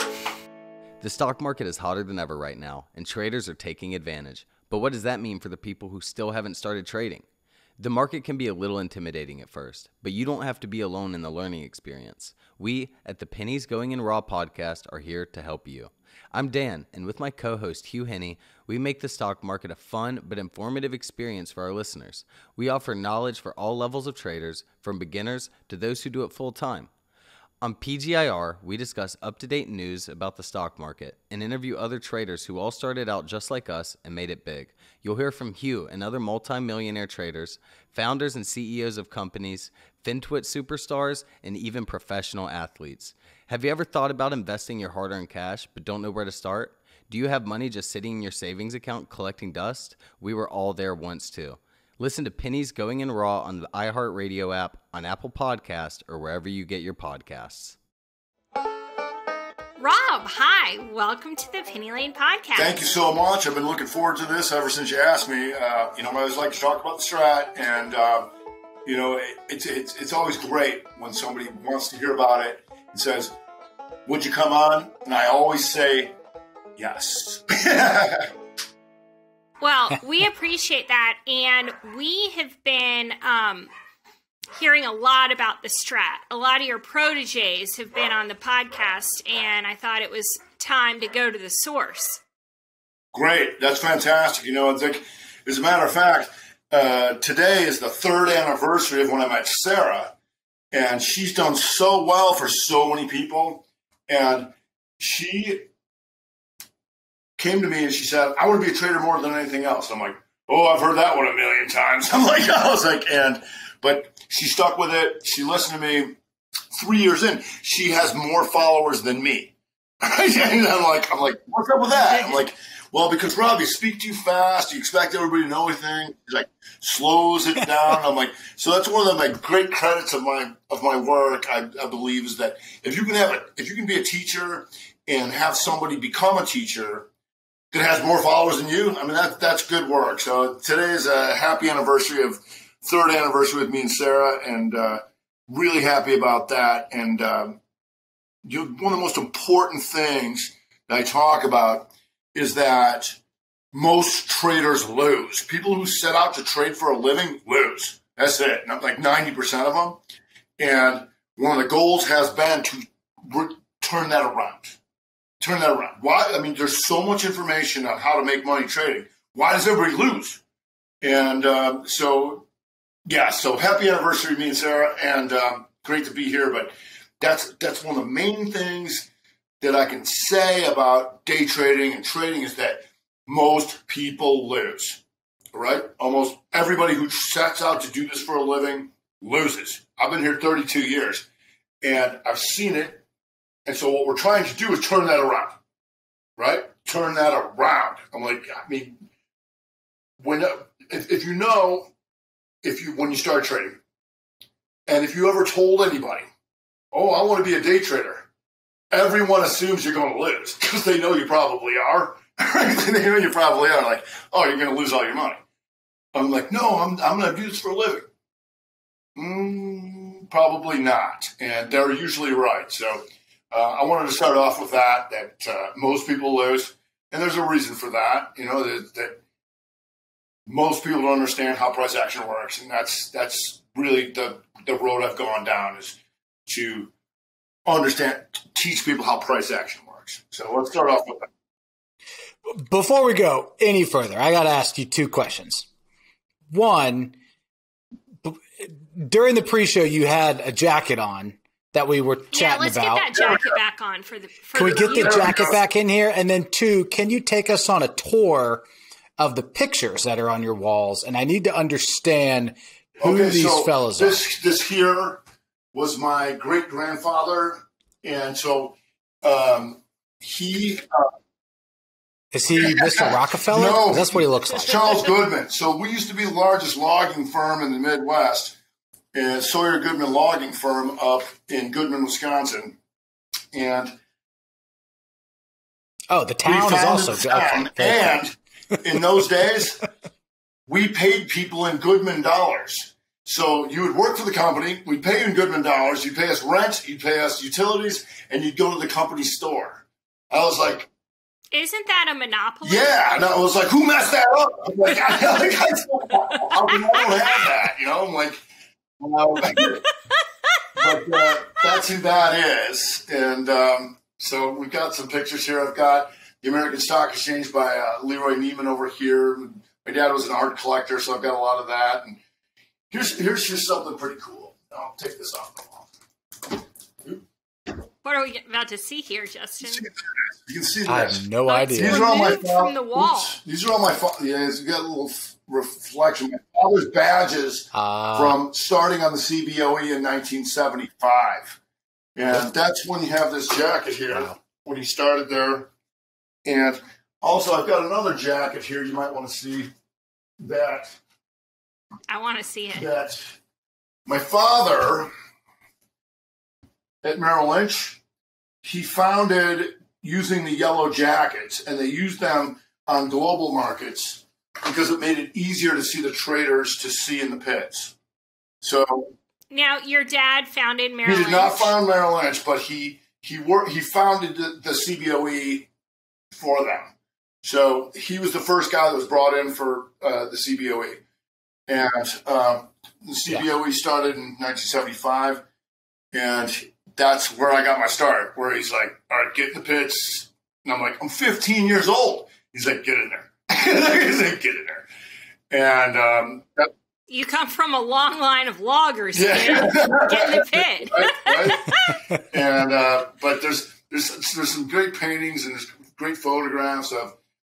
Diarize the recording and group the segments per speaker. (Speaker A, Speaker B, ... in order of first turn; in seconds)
Speaker A: 1.0-7.3, 7.8-26.9, 27.6-57.8
Speaker B: 59.8-62.9, 79.6-83.7, 84.5-92.2, 252.3-255.6, 301.5-303.2, 306.3-307.1, 328.0-329.9, 331.5-333.4, 352.1-352.9, 369.5-371.8, 397.1-402.0
Speaker C: 62.5-68.3, 68.8-73.4, 74.1-76.1, 76.8-78.3, 93.1-100.1, 100.7-105.7, 107.4-116.2, 116.7-137.1, 137.7-147.6, 148.4-153.2, 153.7-160.0, 160.6-164.8, 165.4-170.4, 171.0-172.5, 173.1-179.1, 179.6-185.0, 185.5-191.2, 191.8-193.0, 193.7-195.6, 196.4-199.0, 200.2-201.9, 202.6-203.8, 204.9-206.3, 206.9-208.3, 208.9-215.4, 216.1-218.1, 219.2-229.2, 230.5-236.9, 237.7-241.3, 253.2-253.4, 254.6-255.6, 263.0-265.2, 265.7-271.1, 272.5-278.6, 279.1-282.8, 283.5-283.9, 286.4-289.8, 290.7-300.9, 302.6-308.4, 309.0-309.8, 310.8-322.2, 322.9-325.9, 329.6-341.6, 342.1-345.7, 346.4-349.7, 350.4-351.0, 352.7-353.3, 354.1-355.1, 357.0-358.0, 358.6-367.9, 368.6-369.1, 371.0-375.7, 376.3-381.0, 381.7-385.4, 386.1-394.9, 395.5-396.7, 399.1-407.1
Speaker D: 242.5-245.7, 246.5-247.2, 248.2-253.1, 254.6-258.6, 259.2-264.2, 272.3-274.8, 286.1-288.2, 330.9-332.3, 337.7-338.4